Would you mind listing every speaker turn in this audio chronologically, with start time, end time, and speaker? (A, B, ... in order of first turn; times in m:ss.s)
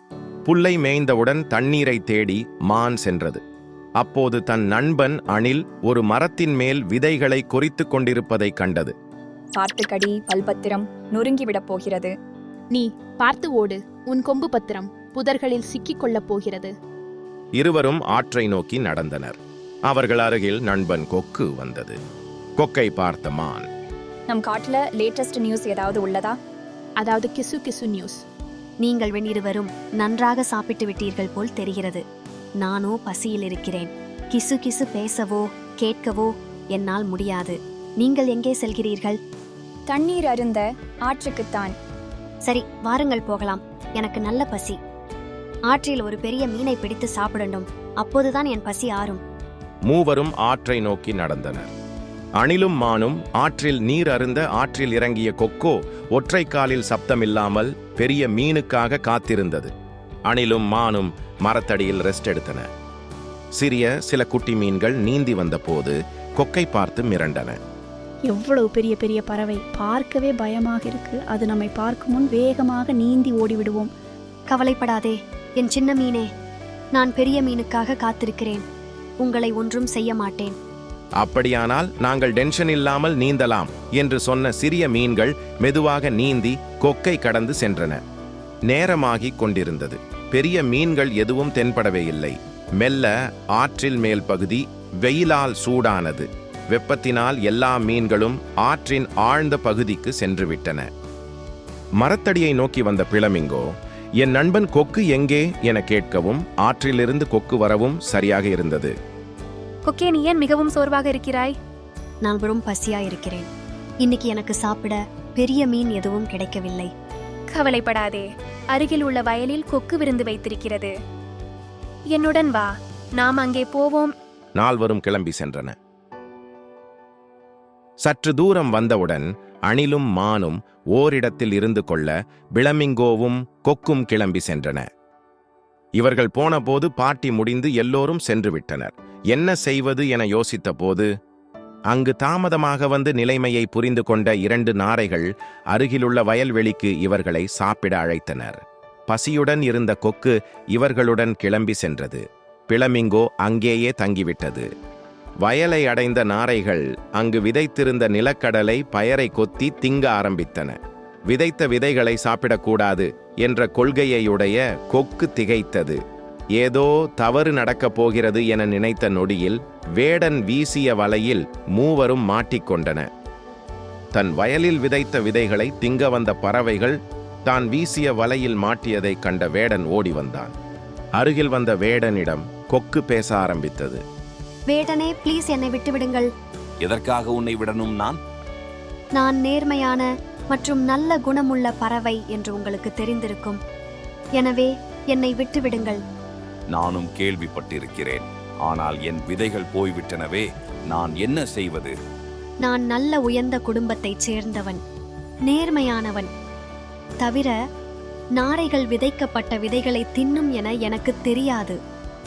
0:00.4-0:03.4 A
0:04.0-0:09.0 A
0:09.5-0:12.1 B
0:12.7-0:16.8 C
0:17.6-0:22.0 A
0:22.6-0:23.7 A
0:24.3-0:26.4 B
0:27.0-0:28.2 C
0:28.8-0:32.0 D
0:32.6-0:39.2 D
0:39.9-0:41.8 B
0:42.5-0:44.8 D
0:45.7-0:49.2 D
0:49.9-0:51.7 A
0:52.4-0:59.7 A
1:00.3-1:02.7 A
1:03.6-1:07.6 A
1:08.2-1:13.9 E
1:14.5-1:16.3 D
1:17.0-1:18.6 D
1:19.2-1:20.6 D
1:21.2-1:28.0 A
1:28.7-1:40.9 A
1:42.0-1:49.0 A
1:49.9-1:51.6 F
1:52.2-1:53.5 D
1:54.0-1:56.9 D
1:57.5-2:00.9 F
2:02.1-2:04.1 F
2:04.6-2:05.8 A
2:08.0-2:14.9 A
2:16.0-2:21.1 A
2:21.9-2:34.7 A
2:35.4-2:46.0 A
2:46.6-2:53.1 A
2:54.1-3:00.6 A
3:01.2-3:04.0 A
3:04.7-3:06.3 D
3:06.8-3:08.2 G
3:09.2-3:13.6 D
3:14.4-3:16.0 D
3:16.7-3:22.0 G
3:22.6-3:24.8 D
3:25.5-3:26.3 D
3:27.2-3:27.6 D
3:28.4-3:31.8 D